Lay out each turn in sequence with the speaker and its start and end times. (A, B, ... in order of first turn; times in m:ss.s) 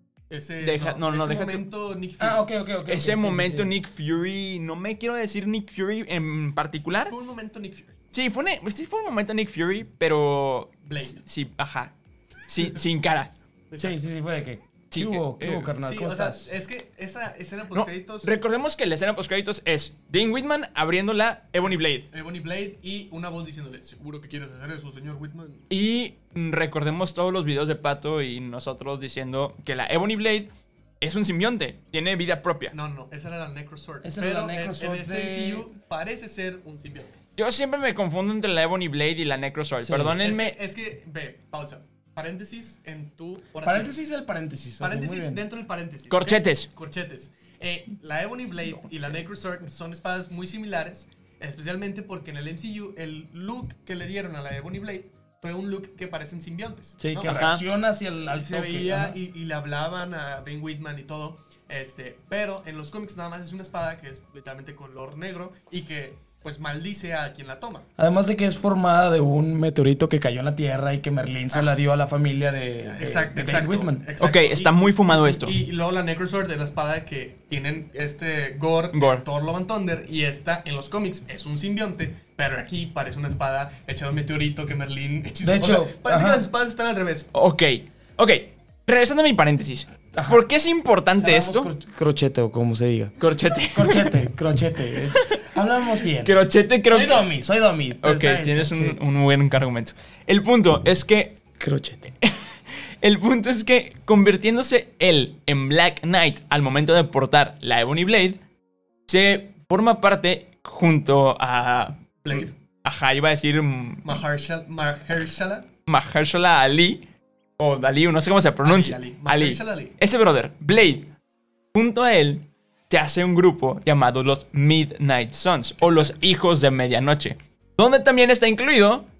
0:00.3-0:02.4 A
0:00.6-0:01.6 B
0:02.2-0:03.7 C
0:02.9-0:07.2 B
0:07.1-0:08.0 A
0:08.1-0:11.9 B
0:10.9-0:11.2 A
0:12.5-0:13.3 B
0:13.7-0:14.0 A
0:13.8-0:16.5 C
0:14.9-0:15.7 B
0:15.8-0:18.4 A
0:17.7-0:22.1 B
0:21.7-0:25.7 A
0:25.7-0:30.5 B
0:31.0-0:32.8 B
0:32.7-0:37.2 A
0:34.0-0:35.7 C
0:37.4-0:40.6 B
0:39.8-0:40.2 C
0:40.0-0:44.0 A
0:43.6-0:45.4 C
0:44.8-0:57.6 A
0:46.1-0:46.7 B
0:57.0-0:59.2 C
0:57.3-0:57.6 B
0:58.3-1:07.9 A
1:08.0-1:14.0 C
1:12.9-1:27.3 A
1:14.2-1:15.6 B
1:18.9-1:19.2 B
1:25.4-1:26.4 C
1:27.3-1:31.7 B
1:30.1-1:30.4 C
1:31.2-1:39.0 C
1:33.2-1:34.1 B
1:35.1-1:35.5 B
1:36.0-1:37.3 B
1:38.0-1:41.4 B
1:41.6-1:42.2 C
1:42.2-1:48.4 B
1:49.1-1:54.2 B
1:52.2-1:52.5 A
1:54.0-1:55.7 A
1:55.9-1:57.0 B
1:57.6-2:01.1 B
1:58.6-2:00.0 A
2:01.7-2:09.1 B
2:05.8-2:06.2 A